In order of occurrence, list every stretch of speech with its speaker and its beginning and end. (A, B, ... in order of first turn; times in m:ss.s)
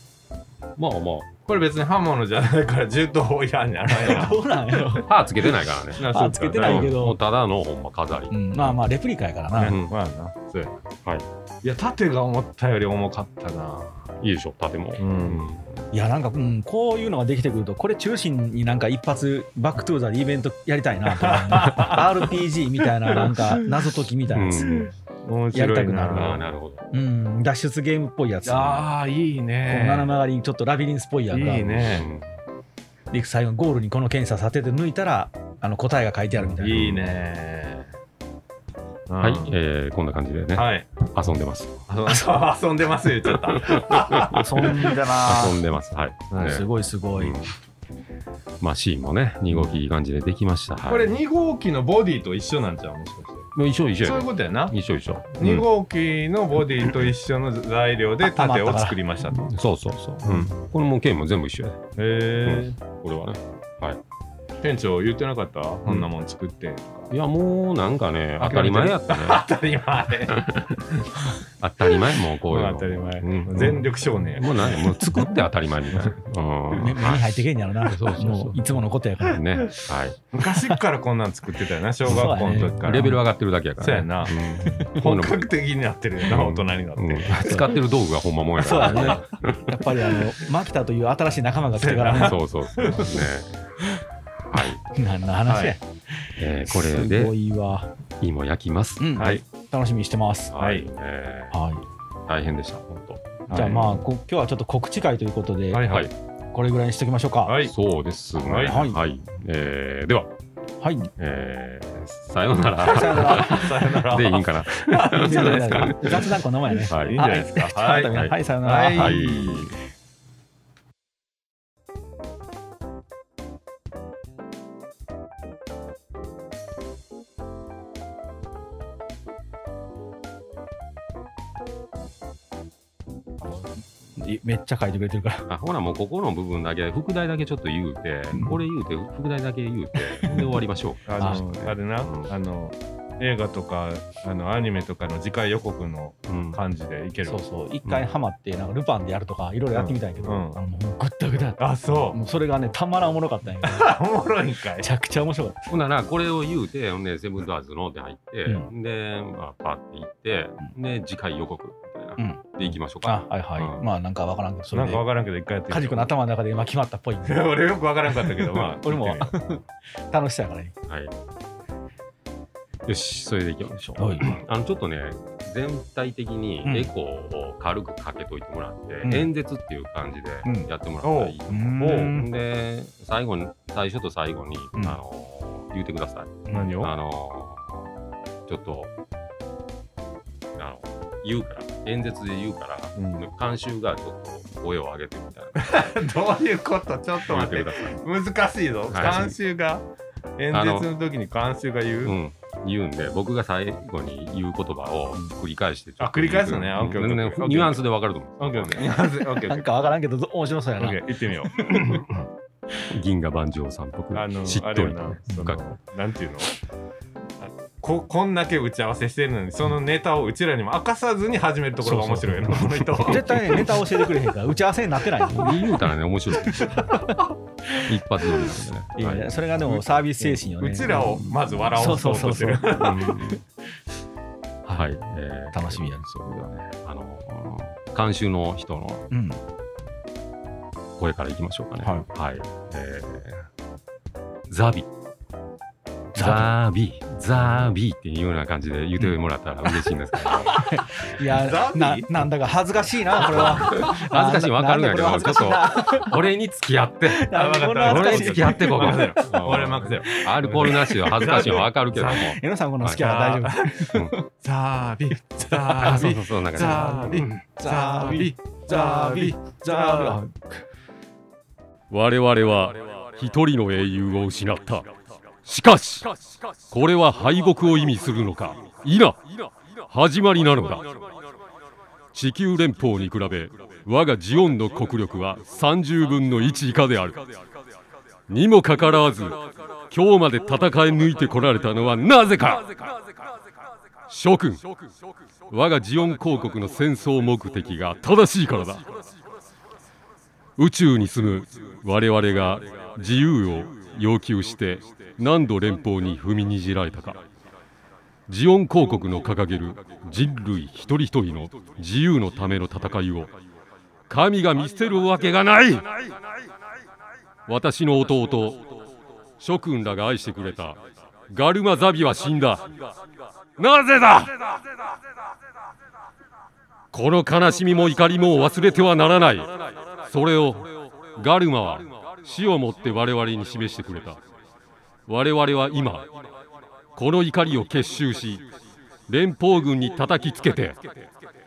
0:00.8-0:01.3 A
0:01.5-0:05.0 B
0:03.9-0:05.1 C
0:05.0-0:08.8 A
0:06.0-0:06.9 B
0:06.0-0:07.2 C
0:08.3-0:09.8 C
0:09.6-0:10.7 B
0:09.6-0:09.9 A
0:11.6-0:14.1 B
0:14.2-0:15.8 A
0:15.0-0:15.5 B
0:15.9-0:24.8 C
0:21.1-0:22.1 B
0:23.1-0:23.5 B
0:24.3-0:24.9 A
0:24.6-0:26.4 B
0:25.5-0:26.4 C
0:26.1-0:26.8 A
0:26.9-0:28.9 C
0:28.4-0:30.1 B
0:29.7-0:31.9 C
0:31.3-0:32.1 B
0:31.8-0:32.3 A
0:33.1-0:36.9 C
0:36.6-0:37.9 B
0:36.7-0:37.0 A
0:39.1-0:39.5 B
0:39.2-0:41.8 A
0:40.5-0:41.1 B
0:41.9-0:44.8 B
0:43.3-0:44.4 A
0:44.3-0:45.6 C
0:45.2-0:46.6 A
0:46.3-0:46.6 B
0:46.4-0:47.4 C
0:47.2-0:47.5 A
0:48.6-0:51.1 A
0:50.9-0:53.5 B
0:53.5-0:55.7 A
0:54.0-0:54.8 B
0:55.3-0:59.4 B
0:56.8-0:57.1 A
0:58.2-0:59.0 C
0:59.3-1:01.8 A
1:00.2-1:00.5 B
1:02.0-1:02.8 B
1:02.4-1:04.0 A
1:04.6-1:07.1 B
1:07.1-1:09.4 A
1:08.4-1:11.1 B
1:10.3-1:10.8 A
1:11.6-1:20.2 A
1:12.5-1:14.8 B
1:14.8-1:15.4 C
1:15.9-1:16.2 B
1:16.7-1:19.7 C
1:20.3-1:23.2 B
1:20.4-1:20.8 C
1:22.0-1:23.2 C
1:22.1-1:25.5 A
1:23.8-1:24.4 B
1:24.6-1:24.9 C
1:24.9-1:27.6 B
1:26.2-1:29.7 A
1:27.4-1:27.8 C
1:28.6-1:33.2 C
1:28.8-1:29.2 B
1:31.8-1:33.1 B
1:32.2-1:33.7 A
1:34.5-1:34.8 A
1:34.6-1:37.9 C
1:35.5-1:35.8 B
1:36.4-1:37.3 A
1:38.2-1:39.4 A
1:39.0-1:40.5 C
1:40.5-1:41.6 A
1:40.6-1:40.9 B
1:41.5-1:41.8 C
1:42.3-1:44.0 A
1:43.5-1:43.8 B
1:43.5-1:45.9 C
1:45.7-1:46.1 B
1:45.8-1:46.1 A
1:46.5-1:47.6 C
1:47.4-1:47.7 B
1:47.6-1:50.3 A
1:48.4-1:48.8 B
1:48.6-1:49.0 C
1:50.8-1:51.1 C
1:51.2-1:56.3 A
1:52.8-1:53.9 C
1:53.2-1:56.3 B
1:55.1-1:59.6 C
1:56.9-1:57.2 A
1:56.9-1:59.6 B
1:58.9-1:59.7 A
2:13.4-2:15.5 C
2:15.5-2:22.3 A
2:18.3-2:18.6 C
2:19.9-2:20.5 C
2:21.1-2:27.4 B
2:26.3-2:26.6 A
2:27.2-2:33.9 C
2:29.7-2:30.6 B
2:31.6-2:32.2 B
2:33.6-2:34.9 B
2:34.8-2:35.7 C
2:35.7-2:43.8 A
2:42.2-2:42.5 C
2:43.0-2:45.0 C
2:44.7-2:46.1 B
2:45.7-2:47.5 C
2:47.2-2:49.3 B
2:48.2-2:50.7 C
2:50.9-2:51.1 A
2:52.8-3:07.9 A
2:54.0-2:54.3 C
2:56.6-2:56.9 C
2:59.0-2:59.3 C
3:00.4-3:00.7 C
3:01.0-3:02.1 B
3:01.5-3:02.3 C
3:06.4-3:06.7 C
3:06.5-3:06.9 B
3:08.5-3:08.9 A
3:10.6-3:15.9 A
3:13.0-3:13.2 B
3:15.6-3:19.8 B
3:17.3-3:17.9 A
3:18.9-3:19.4 A
3:20.4-3:22.2 B
3:20.5-3:20.9 A
3:22.0-3:28.9 A
3:26.0-3:27.8 B
3:28.4-3:29.7 B
3:29.4-3:32.2 C
3:30.8-3:32.0 B
3:31.6-3:32.0 A
3:32.9-3:35.6 A
3:34.1-3:36.5 B
3:37.4-3:43.9 B
3:41.8-3:45.6 C
3:45.3-3:47.0 A
3:46.5-3:53.4 C
3:47.8-3:49.4 A
3:50.2-3:53.1 B
3:51.0-3:52.0 A
3:52.8-3:53.4 A
3:54.7-3:59.1 A
3:55.5-3:56.0 C
3:59.1-3:59.4 C
4:01.0-4:03.4 A
4:04.5-4:04.9 A
4:06.2-4:06.5 C
4:06.2-4:10.6 A
4:10.3-4:16.2 C
4:11.2-4:12.2 B
4:13.2-4:13.9 B
4:13.2-4:17.3 A
4:17.1-4:19.1 C
4:17.3-4:22.4 B
4:17.8-4:23.0 A
4:20.0-4:24.2 C
4:23.0-4:30.2 B
4:25.1-4:30.6 C
4:25.8-4:27.4 A
4:31.9-4:34.9 A
4:35.4-4:41.2 A
4:42.1-4:47.3 A
4:48.3-4:53.0 A
4:54.1-4:54.6 A
4:55.5-4:58.9 A
5:00.6-5:07.2 A
5:08.3-5:13.3 A
5:14.1-5:16.3 A
5:17.5-5:18.7 A
5:19.4-5:22.9 A
5:23.6-5:24.7 A
5:26.9-5:34.2 A
5:35.1-5:36.1 A
5:37.0-5:38.4 A
5:39.1-5:40.8 A